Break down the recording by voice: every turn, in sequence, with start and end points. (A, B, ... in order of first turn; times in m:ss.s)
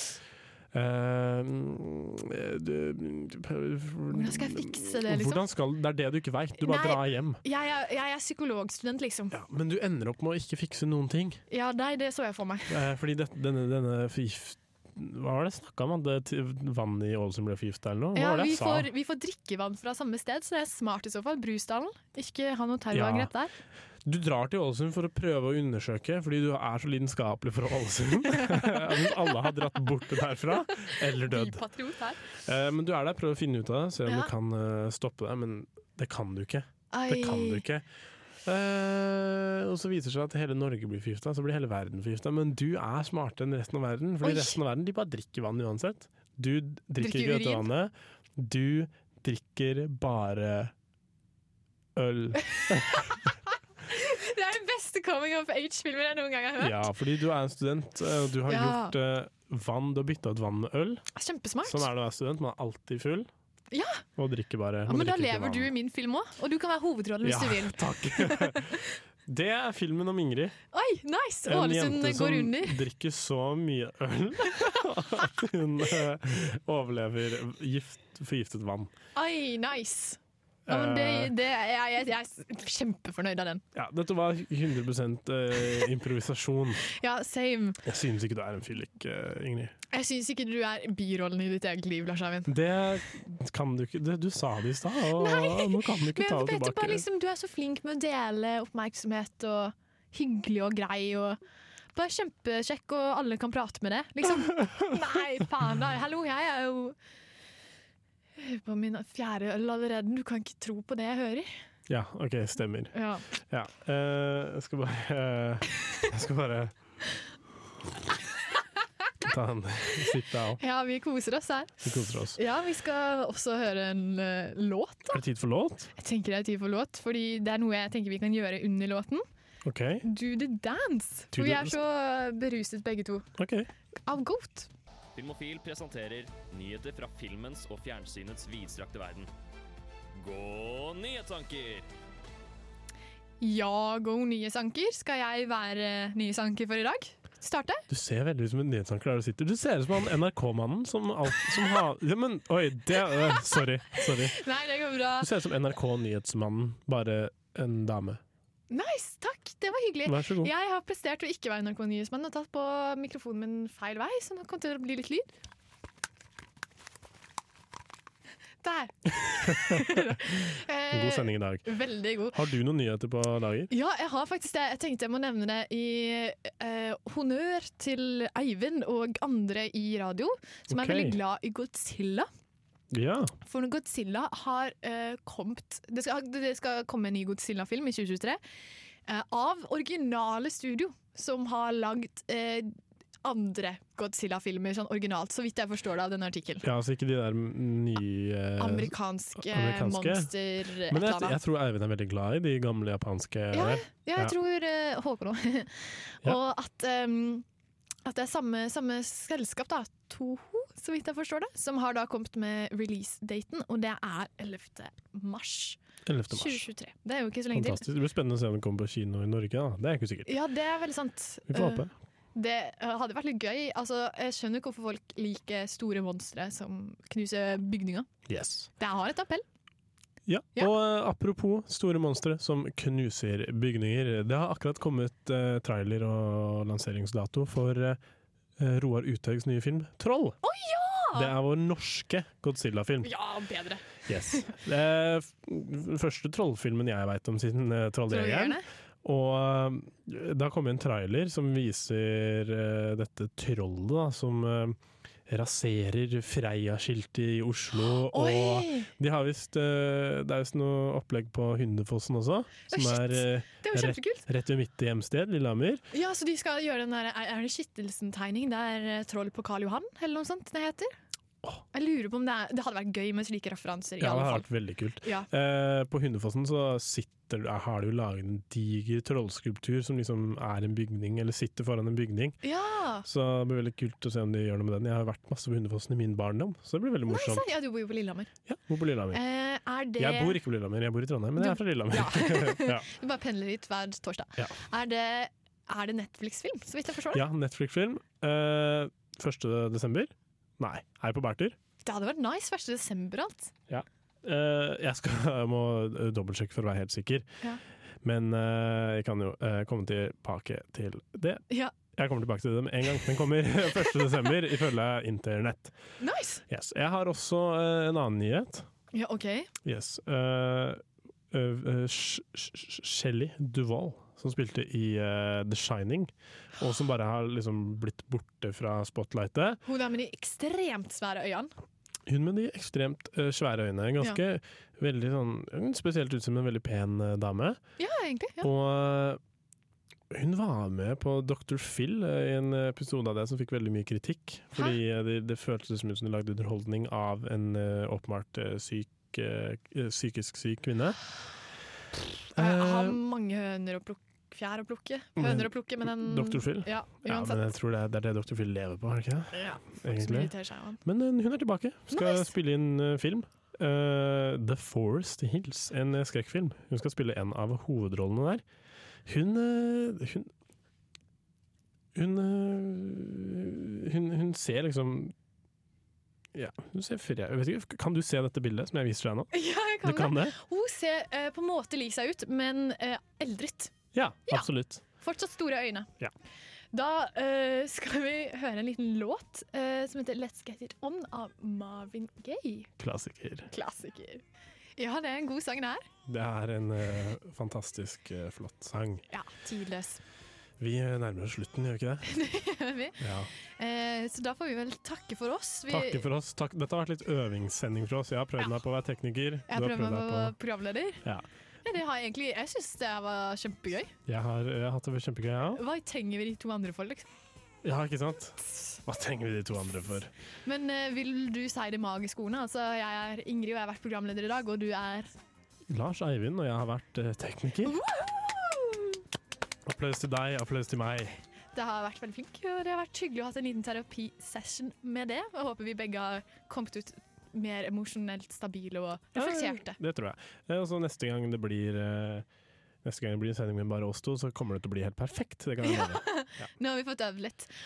0:00.7-0:07.4 A
0:04.1-0:05.4 B
0:06.6-0:09.3 B
0:09.3-0:11.4 A
0:11.5-0:12.8 B
0:12.7-0:18.9 A
0:18.2-0:23.5 B
0:22.9-0:23.3 A
0:24.0-0:31.6 A
0:28.4-0:29.1 B
0:30.8-0:32.3 B
0:32.4-0:37.8 A
0:34.1-0:34.3 B
0:36.9-0:37.6 B
0:38.4-0:50.7 A
0:44.2-0:44.6 B
0:47.0-0:47.7 B
0:52.0-0:53.1 A
0:53.9-0:56.9 B
0:56.6-1:01.1 A
0:58.5-0:58.9 B
1:01.2-1:01.9 B
1:01.7-1:03.3 A
1:03.7-1:04.0 B
1:04.2-1:05.7 A
1:04.9-1:08.8 B
1:07.2-1:10.6 A
1:10.7-1:12.8 B
1:11.4-1:18.9 A
1:14.8-1:15.2 B
1:19.2-1:23.6 B
1:20.7-1:21.3 A
1:23.8-1:26.8 A
1:26.9-1:27.8 B
1:27.8-1:29.8 A
1:29.9-1:32.5 B
1:32.5-1:37.0 A
1:35.2-1:41.4 B
1:42.0-1:47.0 B
1:48.4-1:51.5 B
1:51.9-1:56.7 A
1:52.9-1:53.2 B
1:59.2-2:00.6 A
2:00.6-2:01.8 B
2:01.8-2:02.4 A
2:02.4-2:05.2 B
2:05.1-2:05.9 A
2:06.0-2:09.2 B
2:09.7-2:10.0 A
2:10.0-2:13.3 B
2:11.3-2:11.8 A
2:13.4-2:13.7 A
2:14.1-2:14.7 B
2:15.2-2:19.3 C
2:20.2-2:21.9 C
2:23.4-2:27.8 B
2:27.9-2:34.4 A
2:33.2-2:35.3 B
2:35.2-2:38.2 A
2:38.7-2:45.3 B
2:40.1-2:40.5 A
2:48.6-2:52.4 B
2:49.5-2:51.6 A
2:52.3-2:53.7 A
2:53.7-3:02.3 B
3:00.7-3:01.2 A
3:02.9-3:03.3 A
3:03.4-3:08.4 B
3:09.1-3:12.7 B
3:13.2-3:16.6 B
3:16.6-3:20.3 A
3:18.6-3:21.4 B
3:20.9-3:24.3 A
3:23.5-3:27.4 B
3:28.1-3:35.8 B
3:36.1-3:36.7 A
3:36.3-3:37.8 B
3:37.5-3:40.3 A
3:40.3-3:48.1 B
3:41.5-3:41.9 A
3:48.3-3:48.7 A
3:48.8-3:49.4 B
3:50.3-3:58.0 A
3:58.6-4:00.4 A
4:00.4-4:01.3 B
4:01.2-4:03.1 A
4:03.0-4:04.5 B
4:04.1-4:25.8 A
4:08.1-4:08.7 B
4:18.1-4:18.9 B
4:22.7-4:24.2 B
4:25.9-4:30.9 B
4:31.7-4:34.5 B
4:34.0-4:42.4 A
4:35.0-4:35.3 B
4:42.4-4:43.1 B
4:43.0-4:47.4 A
4:47.1-4:48.3 B
4:48.5-4:49.2 A
4:49.1-4:50.4 B
4:50.0-4:52.9 A
4:51.4-4:57.3 B
4:57.1-5:01.6 A
5:01.8-5:03.5 B
5:03.7-5:07.3 A
5:08.0-5:15.8 A
5:16.0-5:16.4 B
5:16.5-5:18.7 A
5:18.9-5:19.5 B
5:19.6-5:29.6 A
5:29.7-5:31.5 B
5:32.1-5:37.6 A
5:37.8-5:38.5 B
5:38.4-5:39.2 A
5:40.1-5:51.0 A
5:52.4-5:53.0 A
5:52.4-5:57.5 B
5:55.2-6:00.3 A
5:59.3-6:00.8 B
6:00.8-6:08.4 A
6:01.9-6:02.3 B
6:09.1-6:10.3 A
6:12.0-6:15.1 A
6:16.3-6:19.3 A
6:19.3-6:23.7 B
6:19.8-6:20.4 A
6:24.0-6:24.8 A
6:25.0-6:25.9 B
6:26.7-6:32.7 B
6:32.8-6:33.5 A
6:33.5-6:34.2 B
6:34.8-6:35.9 B
6:36.1-6:39.0 A
6:39.1-6:40.0 B
6:40.6-6:42.1 A
6:42.1-6:43.0 B
6:43.0-6:43.3 A
6:43.6-6:46.0 B
6:45.7-6:50.3 A
6:49.5-6:51.0 B
6:51.6-6:53.9 B
6:54.1-6:55.6 A
6:55.6-6:57.1 B
6:57.6-7:00.1 A
7:00.5-7:05.1 B
7:05.7-7:07.8 A
7:07.7-7:09.0 B
7:09.7-7:11.2 A
7:11.6-7:19.8 B
7:19.2-7:22.3 A
7:22.8-7:26.5 A
7:25.6-7:27.5 B